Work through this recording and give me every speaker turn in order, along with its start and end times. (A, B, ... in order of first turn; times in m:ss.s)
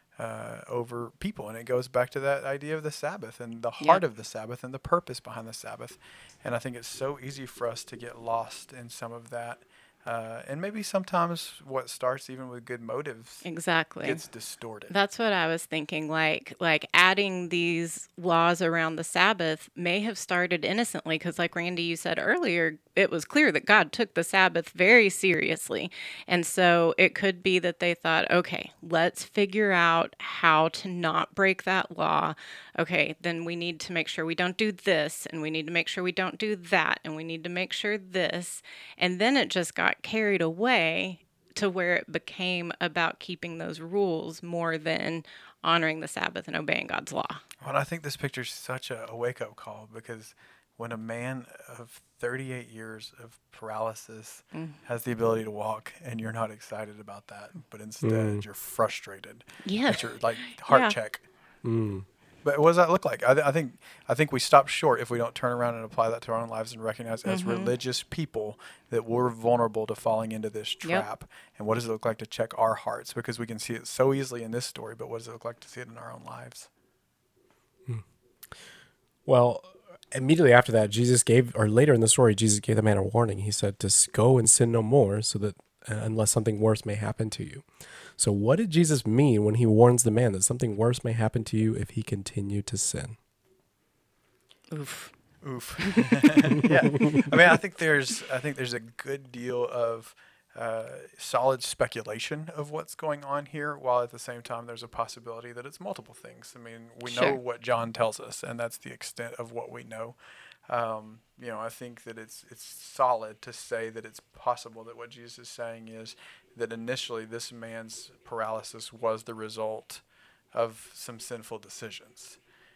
0:00.2-0:13.4 A
0:13.4-0:14.2 B
0:14.0-0:14.9 A
0:14.9-0:47.4 B
0:47.6-1:01.2 A
0:58.0-0:58.4 C
0:59.6-1:00.1 B
1:00.7-1:01.0 B
1:01.6-1:02.1 C
1:02.4-1:16.7 A
1:07.3-1:07.7 B
1:19.3-1:33.2 C
1:34.7-1:35.1 B
1:35.4-2:02.4 A
1:35.8-1:36.1 B
1:47.0-1:47.4 B